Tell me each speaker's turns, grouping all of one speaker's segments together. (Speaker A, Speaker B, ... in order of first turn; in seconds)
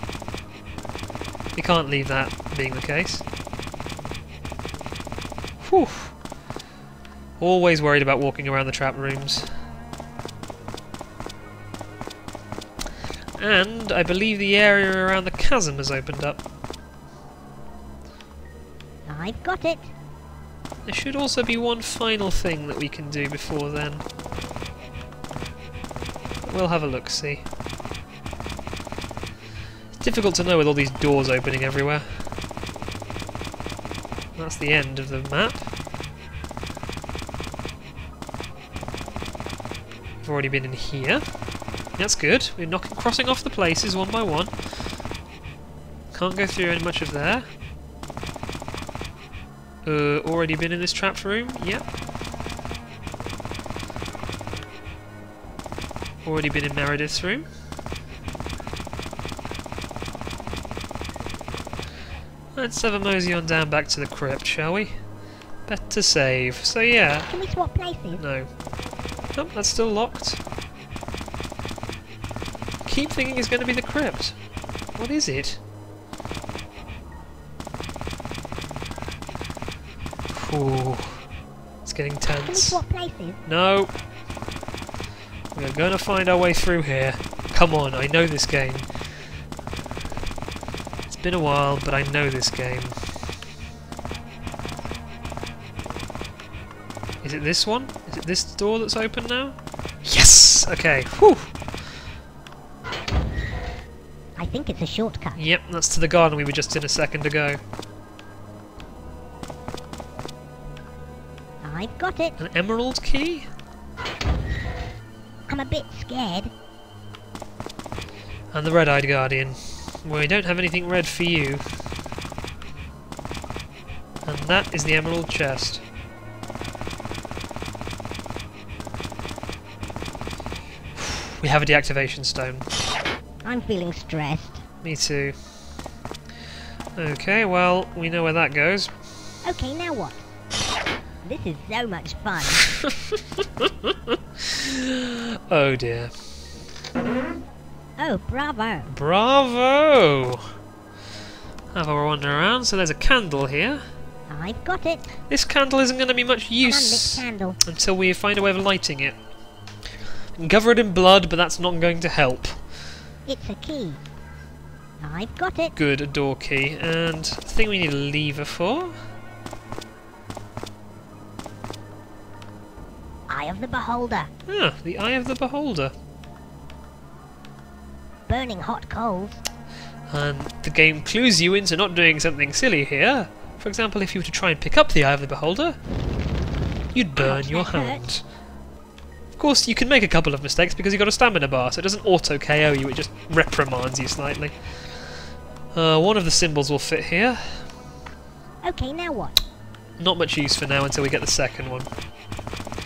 Speaker A: 1.5-3.2, 5.6-6.1, 7.4-9.5, 13.4-16.4, 20.9-24.0, 26.4-27.4, 30.0-32.0, 34.4-35.7, 40.2-41.2, 42.0-44.5, 46.1-47.5, 49.8-51.8, 56.2-57.5, 62.5-64.9, 65.7-67.3, 68.2-68.5, 69.3-70.4, 72.8-74.3, 75.0-75.6, 80.3-81.2, 81.8-82.8, 83.5-83.9, 85.5-88.9, 91.1-93.0, 97.2-101.5, 105.3-107.6, 112.4-113.5, 118.5-121.6, 124.2-125.8, 131.0-132.7, 134.8-135.3, 136.9-138.9, 142.8-146.1, 148.9-150.5, 151.7-153.8, 155.3-159.2, 160.3-162.6, 165.7-168.9, 174.5-175.9, 180.1-185.8, 186.9-188.2, 189.3-194.5, 195.7-197.6, 200.0-201.9
Speaker B: 19.1-19.9, 67.3-68.2, 82.4-83.4, 104.4-105.4, 111.6-112.4, 115.5-116.5, 133.4-134.6, 139.4-140.2, 141.2-142.7, 148.0-148.9, 154.3-155.1, 156.6-157.6, 163.2-164.0, 165.0-165.8, 173.3-174.3, 178.3-179.4, 187.2-188.0, 198.6-199.4